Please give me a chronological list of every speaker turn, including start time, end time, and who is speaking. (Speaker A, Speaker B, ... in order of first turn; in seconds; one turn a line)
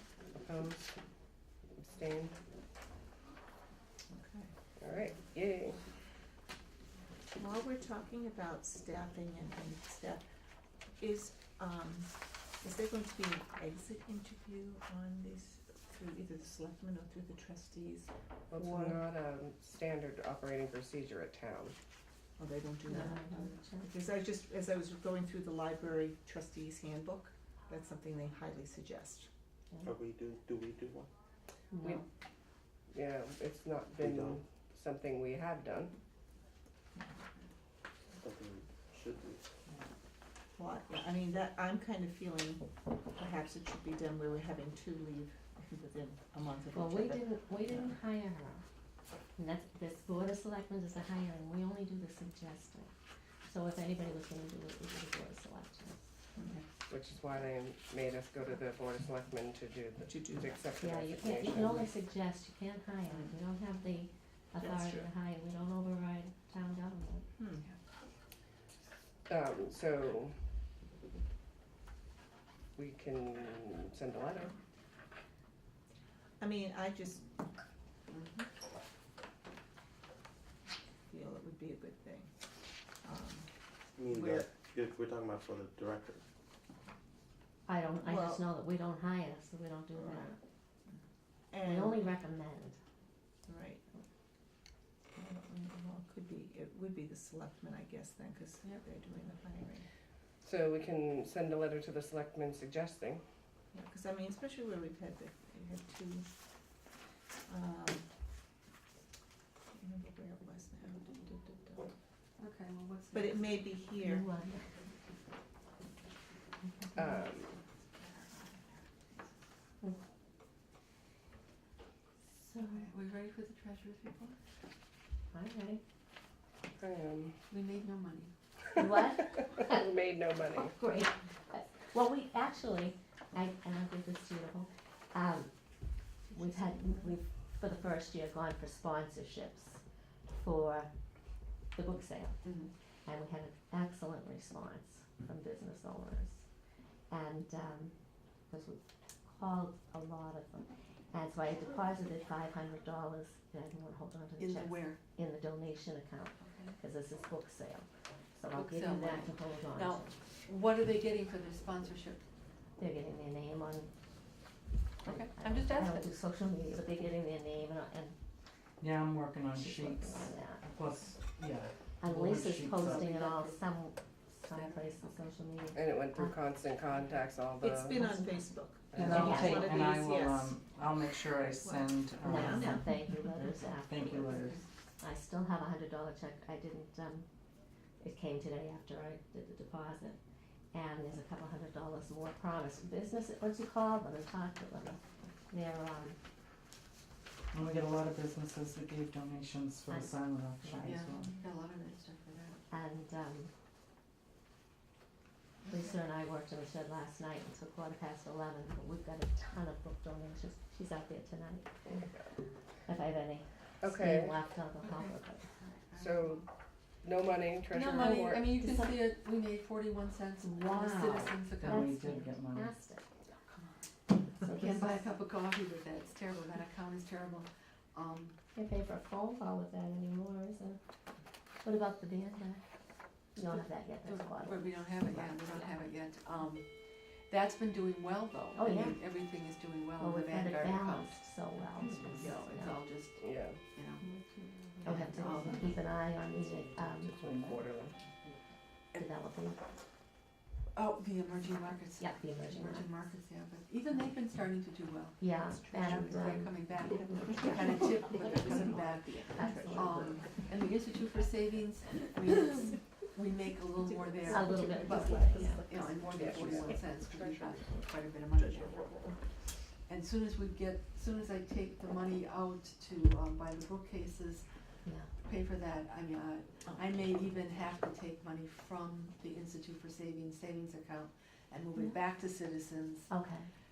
Speaker A: 0.4-0.9
Speaker A: 1.8-2.4
Speaker B: 4.1-4.5
Speaker A: 4.8-5.8
Speaker B: 7.3-10.2
Speaker B: 11.0-18.1
Speaker A: 18.5-21.8
Speaker B: 22.4-29.3
Speaker C: 22.9-23.9
Speaker D: 29.8-31.1
Speaker C: 31.7-32.0
Speaker A: 32.9-35.9
Speaker D: 34.0-34.4
Speaker D: 38.1-39.4
Speaker B: 40.5-47.9
Speaker C: 46.7-48.6
Speaker C: 49.4-52.9
Speaker C: 53.4-56.0
Speaker A: 56.9-61.9
Speaker B: 60.0-60.6
Speaker C: 60.8-67.2
Speaker B: 64.6-65.1
Speaker B: 67.4-67.7
Speaker A: 69.3-70.4
Speaker A: 72.8-74.5
Speaker B: 76.4-77.2
Speaker B: 81.1-82.5
Speaker B: 83.0-83.5
Speaker D: 83.9-86.2
Speaker C: 87.7-90.4
Speaker B: 88.0-88.5
Speaker B: 90.0-90.3
Speaker B: 91.5-92.2
Speaker C: 91.6-92.8
Speaker B: 93.5-93.8
Speaker B: 95.1-99.8
Speaker A: 100.4-103.2
Speaker B: 103.7-106.3
Speaker B: 107.5-108.1
Speaker B: 109.7-111.9
Speaker E: 112.4-113.6
Speaker B: 113.1-114.3
Speaker C: 114.0-114.8
Speaker A: 117.0-117.5
Speaker E: 118.0-119.1
Speaker C: 122.2-122.9
Speaker E: 122.6-124.4
Speaker C: 125.3-125.8
Speaker A: 126.8-127.4
Speaker E: 127.5-128.3
Speaker C: 128.8-129.8
Speaker A: 129.7-130.7
Speaker C: 130.5-140.9
Speaker E: 136.6-137.0
Speaker C: 141.7-146.4
Speaker E: 142.4-142.7
Speaker C: 147.1-147.9
Speaker C: 148.5-160.1
Speaker E: 154.4-155.0
Speaker E: 156.4-156.8
Speaker E: 158.5-162.2
Speaker C: 162.8-163.9
Speaker E: 165.0-166.3
Speaker C: 165.0-168.2
Speaker F: 168.8-173.0
Speaker C: 169.5-170.6
Speaker C: 172.0-176.4
Speaker B: 172.8-173.6
Speaker E: 174.5-175.3
Speaker A: 175.7-178.2
Speaker B: 177.6-180.6
Speaker C: 178.0-179.8
Speaker A: 178.9-179.2
Speaker F: 178.9-184.6
Speaker B: 181.4-183.2
Speaker C: 182.2-187.3
Speaker C: 188.0-190.2
Speaker C: 190.7-196.2
Speaker F: 197.5-201.3
Speaker C: 199.9-200.9
Speaker E: 200.8-202.6
Speaker C: 202.7-203.5
Speaker C: 205.6-211.8
Speaker B: 205.7-205.9
Speaker A: 211.8-212.3
Speaker C: 212.8-215.5
Speaker A: 213.8-214.4
Speaker E: 214.8-216.4
Speaker A: 215.9-216.4
Speaker A: 217.0-218.5
Speaker E: 217.7-221.9
Speaker C: 218.0-219.0
Speaker C: 220.4-223.0
Speaker F: 221.6-222.8
Speaker E: 223.3-223.9
Speaker C: 224.4-225.0
Speaker E: 224.5-228.3
Speaker C: 228.5-230.8
Speaker C: 231.6-232.6
Speaker C: 233.3-235.8
Speaker E: 233.4-236.7
Speaker E: 237.3-244.1
Speaker C: 238.5-239.0
Speaker C: 240.0-242.8
Speaker B: 241.8-242.2
Speaker A: 243.2-243.6
Speaker C: 244.0-247.5
Speaker E: 244.8-245.8
Speaker F: 245.3-245.7
Speaker F: 246.4-247.7
Speaker A: 247.4-247.9
Speaker C: 248.9-249.6
Speaker E: 250.7-268.9
Speaker C: 252.0-252.9
Speaker C: 255.2-258.6
Speaker B: 255.7-256.4
Speaker B: 257.0-260.4
Speaker C: 259.3-260.4
Speaker B: 263.8-265.9
Speaker C: 264.3-266.7
Speaker A: 266.1-267.6
Speaker B: 266.4-266.8
Speaker B: 268.4-269.1
Speaker E: 269.8-274.5
Speaker C: 274.8-275.1
Speaker E: 275.1-283.1
Speaker C: 283.1-283.5